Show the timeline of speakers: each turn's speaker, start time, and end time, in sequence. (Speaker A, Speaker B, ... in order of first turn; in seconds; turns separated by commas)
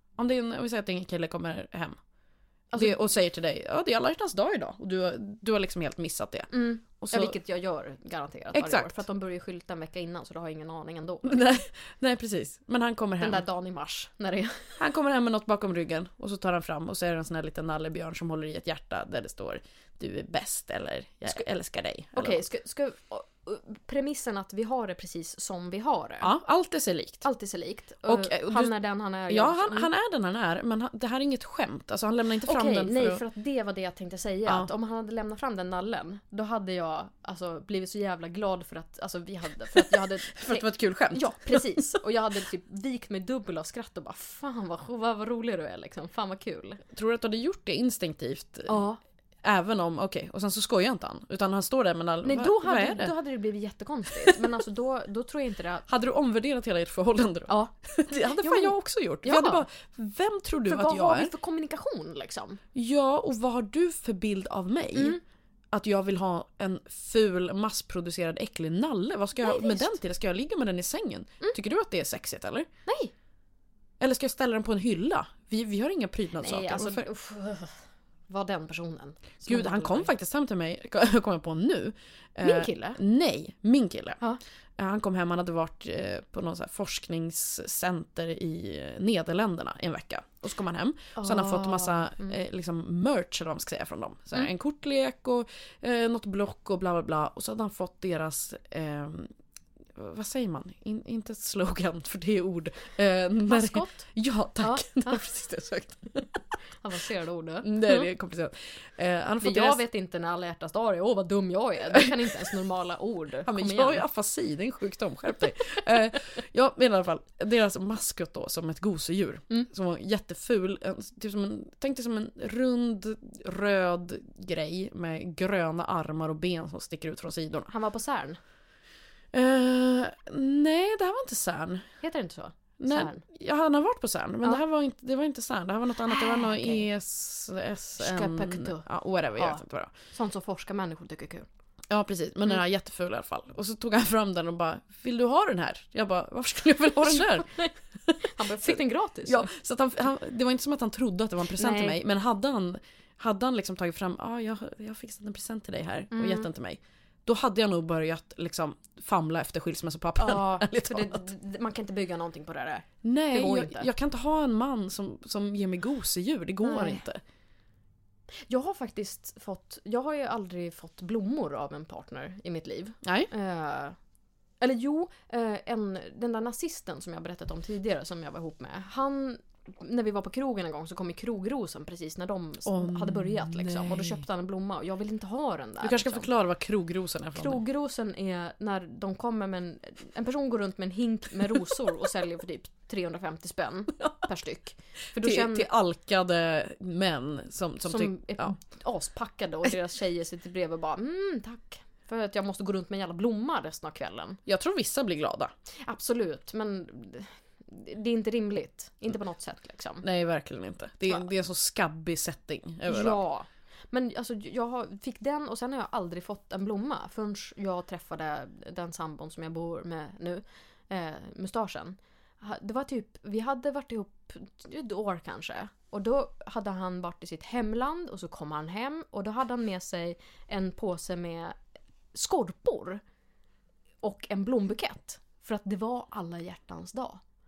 Speaker A: 0.2-2.0, Speaker B: 2.7-3.0, Speaker A: 2.8-7.4, Speaker B: 6.5-11.5, Speaker A: 8.5-9.0, Speaker A: 11.2-13.4, Speaker B: 13.2-14.8, Speaker A: 14.8-22.4, Speaker B: 22.2-26.3, Speaker A: 26.2-27.2, Speaker B: 27.2-29.9, Speaker A: 28.1-28.8, Speaker A: 29.3-33.2, Speaker B: 32.5-46.8, Speaker A: 39.9-42.0, Speaker A: 46.9-48.9, Speaker B: 48.7-49.0, Speaker A: 49.4-53.1, Speaker B: 52.2-55.9, Speaker A: 55.9-61.3, Speaker B: 58.3-59.6, Speaker B: 60.7-62.6, Speaker A: 62.8-65.2, Speaker B: 64.9-65.2, Speaker A: 65.7-72.7, Speaker B: 69.4-70.0, Speaker B: 72.9-73.1, Speaker A: 74.0-77.1, Speaker B: 76.4-80.1, Speaker A: 79.5-84.2, Speaker B: 82.4-83.0, Speaker A: 84.8-99.3, Speaker B: 91.2-92.4, Speaker A: 100.0-106.3, Speaker B: 103.5-104.1, Speaker B: 104.6-105.2, Speaker B: 106.8-108.1, Speaker A: 107.6-109.8, Speaker B: 109.4-114.0, Speaker A: 113.5-127.7, Speaker B: 127.7-128.4, Speaker A: 129.3-131.9, Speaker B: 132.0-133.2, Speaker A: 132.8-139.9, Speaker B: 136.1-136.9, Speaker B: 138.0-141.5, Speaker A: 141.9-147.5, Speaker B: 147.1-147.7, Speaker A: 148.1-161.2, Speaker B: 148.3-149.5, Speaker B: 151.5-152.0, Speaker B: 156.1-156.5, Speaker B: 160.2-163.9, Speaker A: 163.0-167.2, Speaker B: 166.6-167.1, Speaker B: 168.5-174.0, Speaker A: 173.0-173.3, Speaker B: 174.6-186.3, Speaker A: 182.7-184.2, Speaker A: 185.8-187.6, Speaker B: 187.3-195.7, Speaker A: 195.2-198.5, Speaker B: 197.9-204.4, Speaker A: 204.5-205.5, Speaker B: 205.8-210.1, Speaker A: 210.0-213.2, Speaker B: 212.9-231.6, Speaker B: 232.1-233.0, Speaker B: 234.0-237.2